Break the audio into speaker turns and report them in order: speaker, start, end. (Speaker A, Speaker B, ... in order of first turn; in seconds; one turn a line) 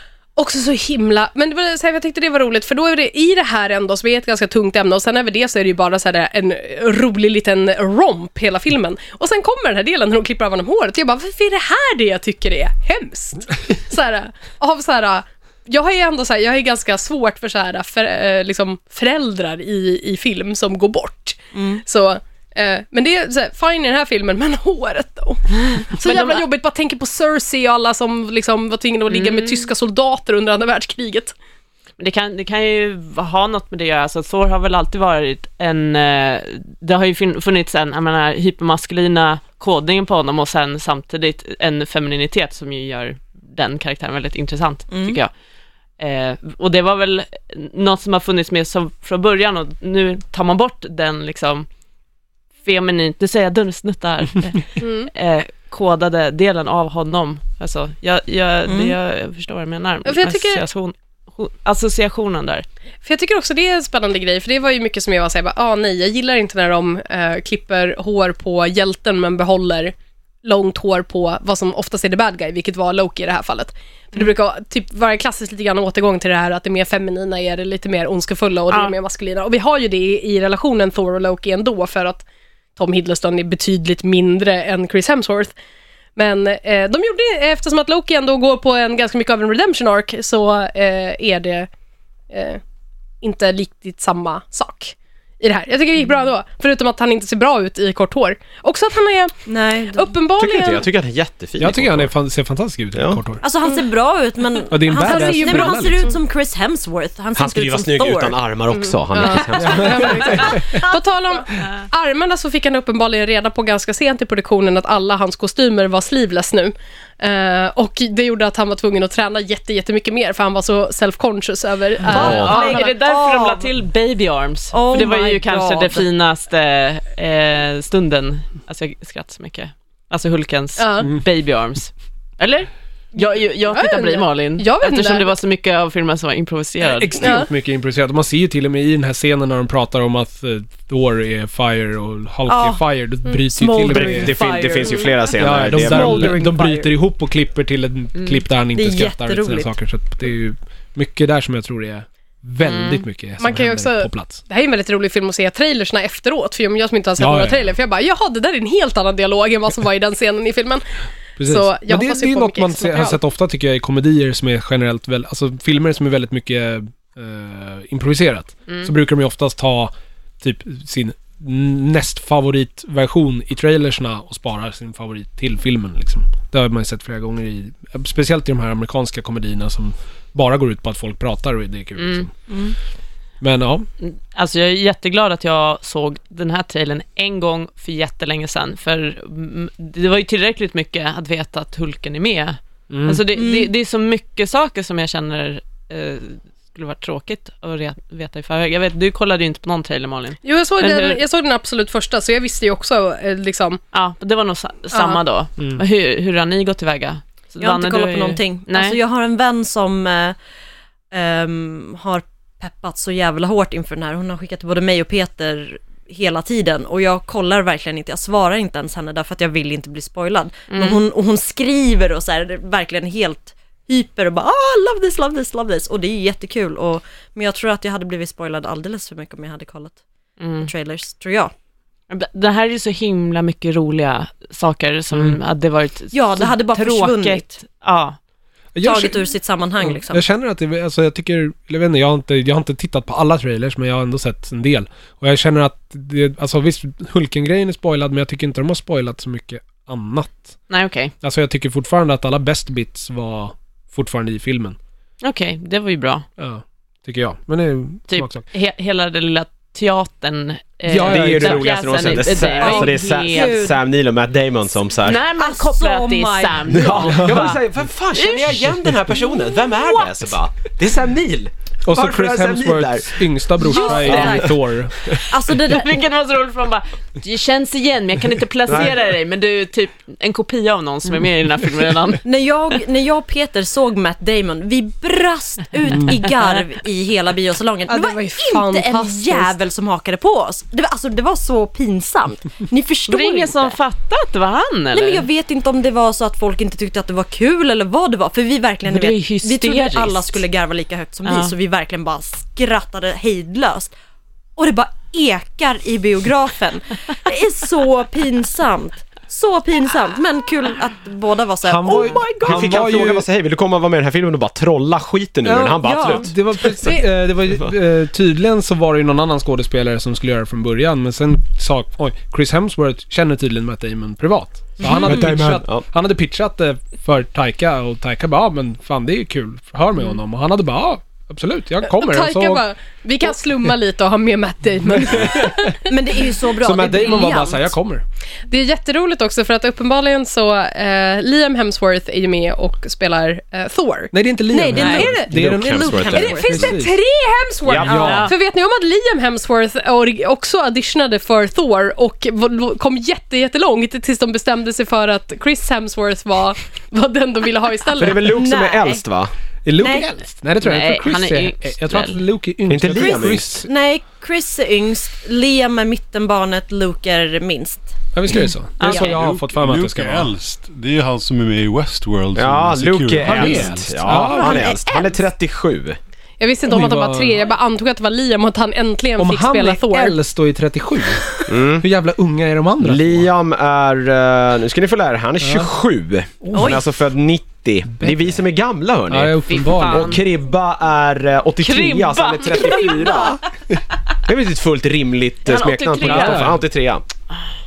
Speaker A: 0.4-31.3
Speaker B: 21.5-21.8
Speaker C: 25.9-26.4
Speaker C: 29.1-29.7
Speaker C: 32.0-45.3
Speaker B: 44.9-45.2
Speaker C: 46.0-51.7
Speaker C: 52.6-62.6
Speaker A: 54.8-55.1
Speaker B: 58.7-59.0
Speaker A: 60.0-60.6
Speaker A: 63.0-82.2
Speaker C: 78.7-78.9
Speaker A: 82.8-85.5
Speaker A: 86.2-91.7
Speaker A: 92.3-92.6
Speaker A: 93.2-100.8
Speaker B: 99.5-100.2
Speaker D: 100.4-102.1
Speaker E: 101.6-103.4
Speaker D: 102.9-103.2
Speaker B: 103.4-108.4
Speaker E: 104.7-106.1
Speaker A: 105.1-105.8
Speaker D: 107.3-110.5
Speaker A: 108.7-123.0
Speaker E: 109.8-110.8
Speaker B: 122.0-123.7
Speaker C: 122.1-137.4
Speaker D: 122.1-122.5
Speaker B: 124.7-126.1
Speaker A: 130.8-131.1
Speaker A: 133.2-135.3
Speaker E: 136.9-144.4
Speaker A: 137.2-137.5
Speaker B: 142.5-142.8
Speaker B: 143.5-146.9
Speaker D: 143.9-146.4
Speaker E: 145.4-154.4
Speaker C: 148.2-148.4
Speaker B: 148.7-149.7
Speaker C: 152.6-153.0
Speaker A: 153.4-160.8
Speaker E: 157.2-157.7
Speaker E: 161.4-182.3
Speaker A: 161.4-163.2
Speaker C: 168.7-168.9
Speaker C: 182.0-182.3
Speaker B: 182.5-182.7
Speaker E: 183.4-183.9
Speaker C: 184.0-201.2
Speaker E: 192.9-193.2
Speaker B: 193.3-193.7
Speaker A: 200.4-203.8
Speaker C: 203.9-209.0
Speaker A: 204.9-205.2
Speaker B: 207.6-210.3
Speaker B: 211.1-230.0
Speaker C: 220.7-221.0
Speaker C: 230.4-230.7
Speaker B: 230.6-231.5
Speaker C: 232.1-238.2
Speaker B: 236.1-237.5
Speaker E: 238.7-239.2
Speaker B: 238.8-240.2
Speaker E: 239.8-250.6
Speaker C: 250.7-251.1
Speaker E: 251.2-254.8
Speaker C: 255.2-256.2
Speaker E: 256.4-258.4
Speaker C: 258.1-263.6
Speaker E: 260.9-262.3
Speaker D: 261.0-265.2
Speaker B: 262.6-263.8
Speaker C: 265.0-267.6
Speaker B: 265.3-267.1
Speaker D: 266.7-274.6
Speaker C: 268.1-270.1
Speaker E: 271.8-275.2
Speaker B: 273.6-274.6
Speaker B: 275.3-276.0
Speaker C: 275.5-282.2
Speaker D: 278.7-278.9
Speaker B: 282.2-293.8
Speaker A: 287.9-289.5
Speaker C: 293.1-295.2
Speaker B: 294.9-303.9
Speaker C: 298.9-300.3
Speaker C: 301.2-301.5
Speaker B: 304.6-312.8
Speaker E: 311.6-313.3
Speaker D: 311.9-317.0
Speaker E: 315.4-332.6
Speaker B: 315.8-316.3
Speaker D: 324.8-325.9
Speaker A: 331.8-335.9
Speaker E: 335.1-335.7
Speaker B: 335.9-337.7
Speaker E: 336.6-338.0
Speaker A: 338.5-345.3
Speaker E: 344.1-347.0
Speaker B: 344.5-346.8
Speaker D: 344.8-346.5
Speaker A: 346.1-358.3
Speaker D: 347.6-348.3
Speaker E: 347.8-348.3
Speaker C: 347.9-348.3
Speaker D: 357.9-359.3
Speaker B: 358.1-359.0
Speaker E: 359.6-363.7
Speaker B: 359.8-360.1
Speaker C: 360.6-362.2
Speaker D: 362.7-363.6
Speaker B: 362.9-368.0
Speaker E: 368.1-370.3
Speaker C: 368.8-369.2
Speaker F: 369.0-374.0
Speaker D: 372.4-376.0
Speaker E: 373.2-374.6
Speaker B: 374.2-375.2
Speaker A: 376.4-380.2
Speaker E: 376.7-377.5
Speaker E: 379.2-383.3
Speaker D: 381.5-381.8
Speaker D: 382.8-393.4
Speaker E: 385.4-385.7
Speaker E: 386.4-386.8
Speaker B: 386.5-386.8
Speaker E: 387.9-388.4
Speaker E: 389.1-390.2
Speaker C: 389.5-390.2
Speaker C: 391.6-393.4
Speaker D: 394.2-397.0
Speaker C: 395.4-396.6
Speaker E: 396.0-396.6